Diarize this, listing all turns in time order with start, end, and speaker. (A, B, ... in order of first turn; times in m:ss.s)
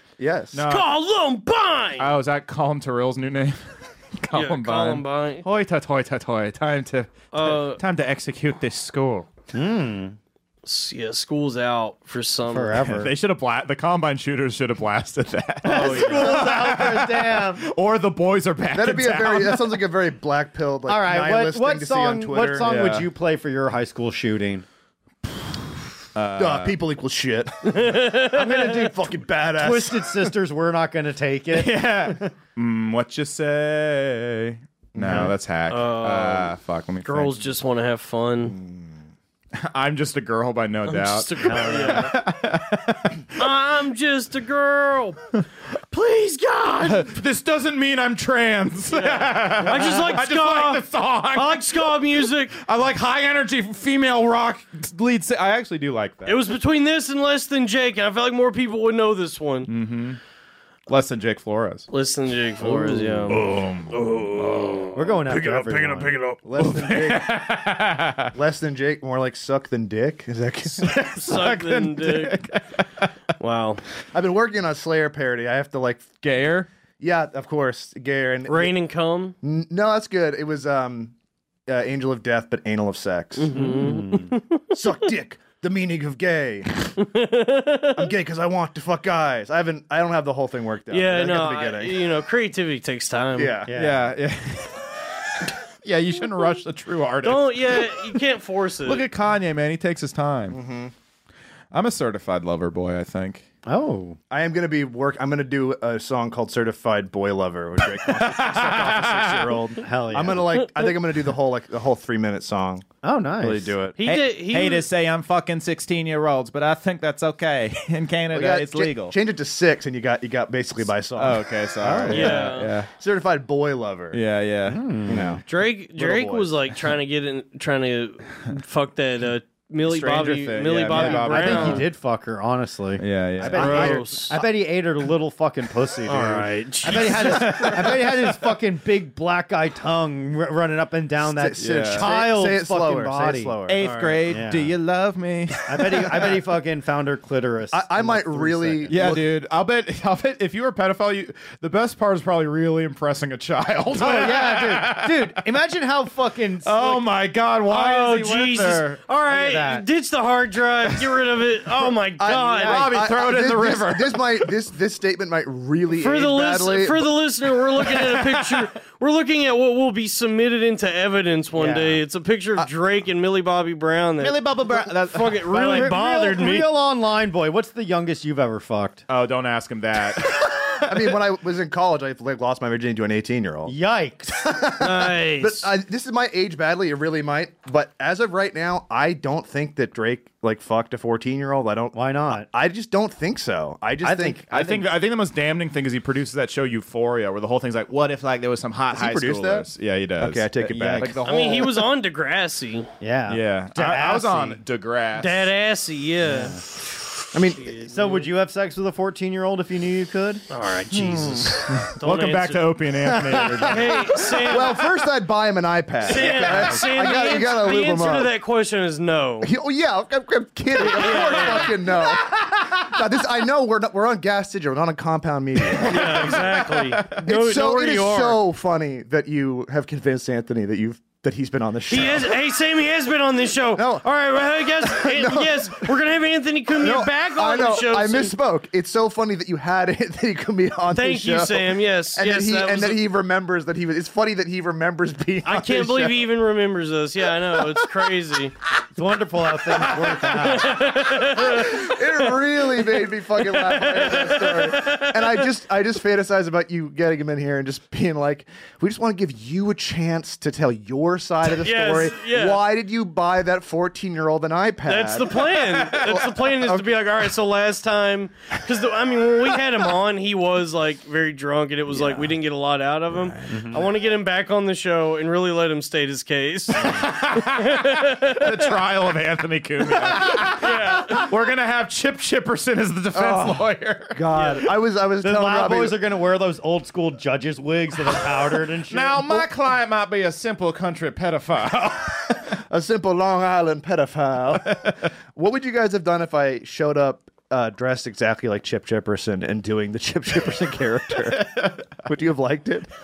0:00.2-0:00.6 A
0:00.5-0:00.9 B
0:00.7-0:02.1 C
0:02.0-0:03.6 B
0:04.2-0:09.3 B
0:04.3-0:05.4 C
0:07.3-0:07.8 C
0:09.5-0:10.2 D
0:10.6-0:12.8 C
0:12.5-0:13.1 D
0:12.9-0:19.8 B
0:15.6-0:17.6 D
0:15.6-0:16.5 C
0:18.7-0:22.7 A
0:20.8-0:24.6 D
0:22.6-0:23.1 B
0:26.1-0:26.8 B
0:26.4-0:30.3 A
0:27.6-0:28.9 C
0:29.5-0:32.2 D
0:31.5-0:37.5 B
0:34.9-0:35.3 A
0:35.7-0:38.6 C
0:38.5-0:38.9 A
0:39.5-0:43.4 B
0:40.8-0:42.1 C
0:41.5-0:41.8 D
0:43.4-0:45.2 C
0:45.9-0:47.1 C
0:46.8-0:51.9 B
0:48.9-0:52.6 C
0:52.5-0:56.5 B
0:56.2-0:59.7 C
0:59.6-1:00.2 B
1:00.9-1:01.9 B
1:01.9-1:06.4 C
1:02.6-1:04.9 B
1:04.9-1:06.1 D
1:06.4-1:07.4 A
1:06.6-1:08.3 B
1:08.3-1:11.0 A
1:10.7-1:13.1 B
1:11.1-1:12.4 C
1:13.4-1:13.8 C
1:14.1-1:16.1 A
1:16.2-1:16.7 B
1:17.0-1:18.7 A
1:18.5-1:19.3 C
1:19.4-1:21.1 A
1:21.7-1:23.5 A
1:23.4-1:25.0 C
1:23.5-1:24.3 D
1:24.7-1:26.7 A
1:27.0-1:28.1 C
1:28.0-1:32.0 A
1:30.9-1:33.6 C
1:33.4-1:33.7 A
1:33.7-1:34.1 D
1:33.7-1:34.9 B
1:35.5-1:38.1 B
1:37.2-1:39.0 C
1:38.8-1:40.6 B
1:40.5-1:40.9 A
1:41.7-1:43.4 B
1:43.6-1:44.2 D
1:44.3-1:52.9 A
1:48.0-1:49.6 B
1:49.8-1:50.6 D
1:53.0-1:53.8 D
1:53.4-1:54.0 A
1:54.0-1:54.8 C
1:54.0-1:59.1 B
1:58.3-2:02.4 A
2:01.1-2:02.9 B
2:01.8-2:02.4 D
2:02.1-2:02.7 C
2:02.9-2:04.2 A
2:04.1-2:05.2 B
2:04.7-2:05.3 D
2:05.1-2:06.5 A
2:05.4-2:11.9 C
2:09.8-2:11.9 B
2:10.9-2:23.6 D
2:13.0-2:14.0 B
2:13.4-2:14.5 A
2:13.5-2:14.4 C
2:16.0-2:17.7 C
2:16.9-2:18.4 B
2:21.2-2:23.8 A
2:21.6-2:22.1 B
2:23.7-2:26.4 B
2:23.8-2:24.2 C
2:24.3-2:24.8 D
2:25.6-2:29.2 D
2:27.7-2:29.2 A
2:28.9-2:35.4 B
2:33.9-2:37.1 D
2:36.6-2:39.0 B
2:37.7-2:42.9 C
2:39.3-2:39.8 D
2:42.2-2:47.2 A
2:42.6-2:44.5 B
2:46.0-2:56.7 C
2:47.8-2:48.7 B
2:51.6-2:52.0 D
2:54.2-2:56.0 B
2:55.5-2:59.0 D
2:59.1-3:01.2 B
3:00.8-3:03.7 A
3:03.7-3:04.4 D
3:04.4-3:14.4 A
3:04.8-3:05.7 C
3:11.9-3:12.5 D
3:14.0-3:14.9 D
3:14.5-3:21.8 B
3:18.9-3:21.2 A
3:20.8-3:21.2 D
3:21.2-3:22.9 C
3:23.0-3:24.6 D
3:23.3-3:25.5 B
3:25.2-3:28.3 C
3:26.2-3:26.6 D
3:27.3-3:27.7 A
3:27.9-3:30.4 D
3:30.5-3:32.7 C
3:31.7-3:34.4 B
3:33.0-3:34.0 D
3:33.6-3:34.8 C
3:34.4-3:38.3 A
3:36.0-3:39.5 C
3:36.1-3:37.1 B
3:39.4-3:46.6 A
3:40.7-3:41.8 C
3:40.9-3:41.7 B
3:45.7-3:47.2 B
3:45.9-3:48.4 C
3:47.1-3:52.4 A
3:51.9-3:58.3 C
3:53.7-3:54.1 A
3:54.6-3:55.9 A
3:56.8-4:06.2 A
4:00.9-4:03.0 C
4:05.4-4:08.5 C
4:08.9-4:10.9 D
4:09.7-4:10.6 B
4:10.2-4:12.0 C
4:11.3-4:26.9 A
4:13.3-4:15.4 C
4:21.5-4:22.6 C
4:24.8-4:38.8 C
4:25.2-4:26.2 B
4:31.9-4:32.4 A
4:33.1-4:33.8 A
4:33.5-4:33.8 D
4:36.7-4:44.2 B
4:40.0-4:41.3 C
4:43.1-4:46.0 A
4:44.3-4:44.6 C
4:45.2-4:49.4 D
4:48.8-4:52.5 B
4:52.5-5:02.9 A
5:01.3-5:01.8 B